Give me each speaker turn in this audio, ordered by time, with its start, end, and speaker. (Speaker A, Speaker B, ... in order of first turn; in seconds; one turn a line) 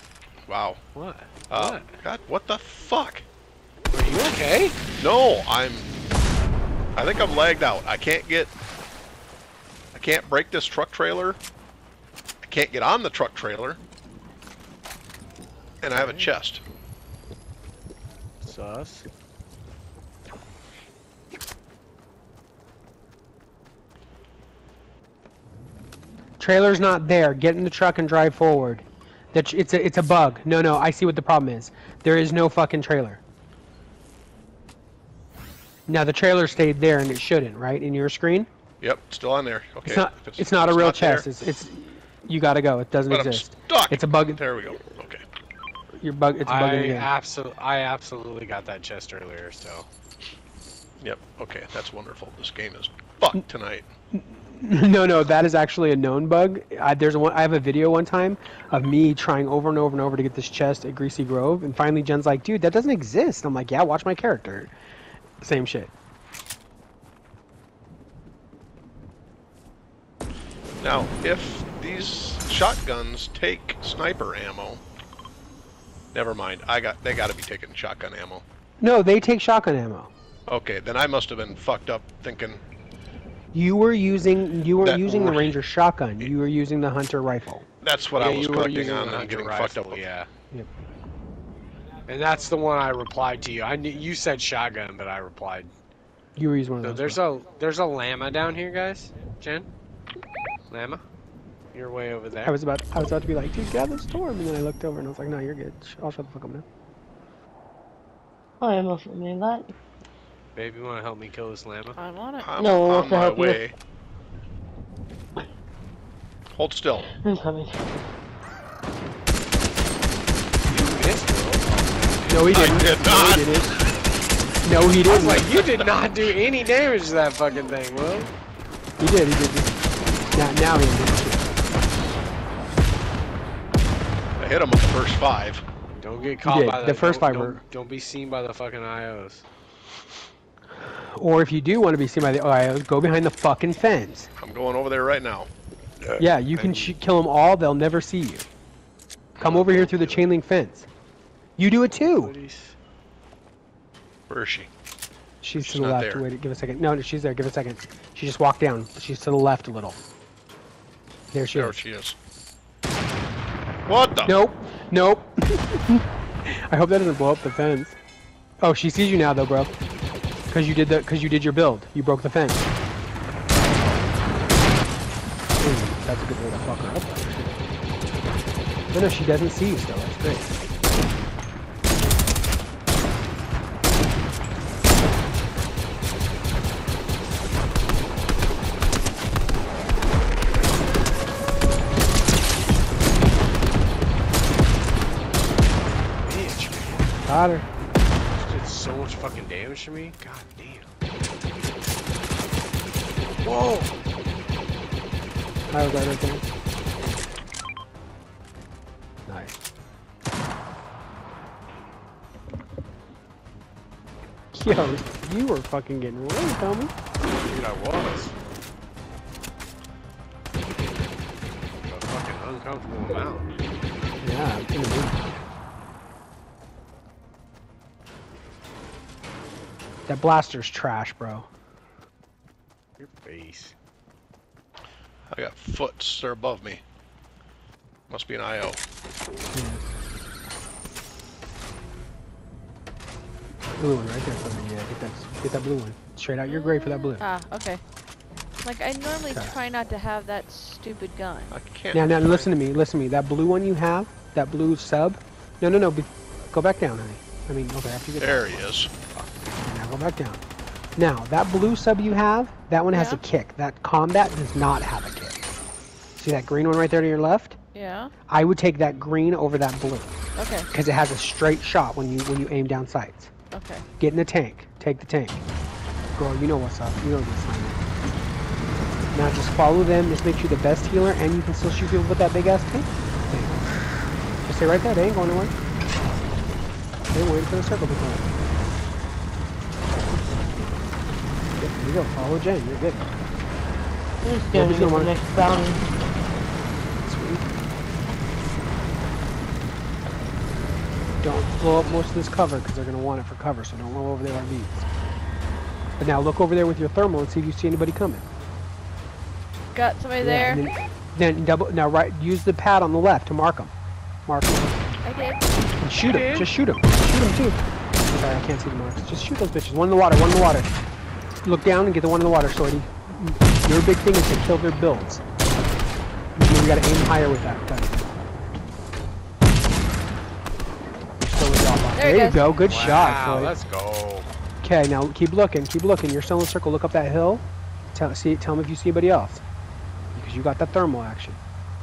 Speaker A: 0.5-0.8
Speaker B: 0.9-1.9
Speaker A: 1.5-3.2
Speaker B: 3.9-4.8
Speaker A: 5.0-5.9
Speaker A: 6.9-8.5
Speaker A: 9.9-11.4
Speaker A: 12.4-13.8
Speaker A: 15.8-16.6
Speaker B: 15.9-16.4
Speaker B: 18.4-19.1
Speaker C: 26.4-33.2
Speaker C: 35.9-38.5
Speaker A: 38.8-41.3
Speaker C: 39.8-44.5
Speaker A: 43.1-45.2
Speaker C: 46.0-47.1
Speaker B: 46.5-49.9
Speaker A: 51.0-53.9
Speaker C: 54.1-64.7
Speaker C: 65.4-65.9
Speaker A: 70.8-74.8
Speaker A: 76.1-78.4
Speaker C: 78.8-80.1
Speaker A: 80.5-82.6
Speaker C: 83.5-87.6
Speaker A: 84.8-85.6
Speaker A: 87.8-90.1
Speaker B: 88.2-90.3
Speaker B: 92.1-95.7
Speaker C: 96.3-97.2
Speaker B: 96.8-99.7
Speaker B: 100.7-101.0
Speaker B: 101.7-102.5
Speaker C: 102.4-106.6
Speaker D: 108.6-109.7
Speaker B: 110.5-112.0
Speaker E: 111.9-112.5
Speaker A: 112.4-113.7
Speaker D: 112.6-113.7
Speaker A: 116.5-117.1
Speaker D: 117.0-118.0
Speaker B: 120.7-122.6
Speaker C: 122.2-123.8
Speaker A: 122.5-123.6
Speaker C: 124.6-125.5
Speaker B: 125.0-128.3
Speaker A: 125.5-126.0
Speaker C: 129.0-129.7
Speaker C: 130.3-131.5
Speaker A: 134.4-135.6
Speaker B: 135.9-139.4
Speaker C: 136.4-137.6
Speaker C: 140.8-144.3
Speaker A: 144.4-145.5
Speaker C: 146.2-148.5
Speaker B: 146.5-146.9
Speaker B: 149.4-150.4
Speaker C: 149.4-150.9
Speaker C: 151.6-152.3
Speaker B: 152.0-152.8
Speaker A: 154.3-154.7
Speaker C: 155.4-160.0
Speaker A: 155.6-156.2
Speaker C: 161.3-161.8
Speaker A: 161.5-162.2
Speaker A: 163.8-164.3
Speaker C: 164.2-167.9
Speaker C: 168.6-169.7
Speaker C: 170.5-172.7
Speaker C: 175.6-177.6
Speaker C: 178.9-180.5
Speaker B: 196.1-197.1
Speaker C: 197.2-197.7
Speaker B: 198.3-200.9
Speaker B: 203.4-203.9
Speaker C: 205.7-206.4
Speaker C: 209.3-209.5
Speaker C: 214.5-216.9
Speaker B: 217.5-218.3
Speaker B: 220.8-221.1
Speaker B: 221.8-223.5
Speaker C: 224.2-225.2
Speaker C: 230.1-231.5
Speaker B: 233.0-233.7
Speaker A: 235.3-236.8
Speaker A: 238.1-238.8
Speaker C: 239.5-239.8
Speaker C: 243.8-247.2
Speaker E: 246.5-247.8
Speaker E: 248.6-251.5
Speaker A: 251.5-252.5
Speaker C: 251.9-258.6
Speaker A: 258.2-258.9
Speaker C: 259.1-260.4
Speaker C: 260.9-265.4
Speaker E: 262.9-263.2
Speaker C: 266.2-267.6
Speaker E: 267.7-268.1
Speaker C: 268.3-270.1
Speaker E: 270.4-270.7
Speaker C: 270.7-273.3
Speaker E: 273.5-273.8
Speaker C: 274.0-275.4
Speaker C: 276.1-277.8
Speaker C: 279.1-283.6
Speaker C: 284.4-285.5
Speaker C: 287.1-288.3
Speaker C: 291.6-293.1
Speaker D: 294.2-295.8
Speaker C: 294.5-295.1
Speaker C: 297.0-297.5
Speaker C: 301.2-304.9
Speaker C: 306.0-308.3
Speaker E: 309.7-310.6
Speaker C: 310.2-313.7
Speaker C: 314.2-314.8
Speaker E: 315.0-315.6
Speaker C: 315.8-320.7
Speaker B: 315.9-316.5
Speaker C: 321.4-325.2
Speaker C: 326.4-328.0
Speaker C: 331.2-333.5
Speaker E: 331.9-332.5
Speaker B: 332.5-334.3
Speaker C: 334.6-339.4
Speaker C: 340.1-341.4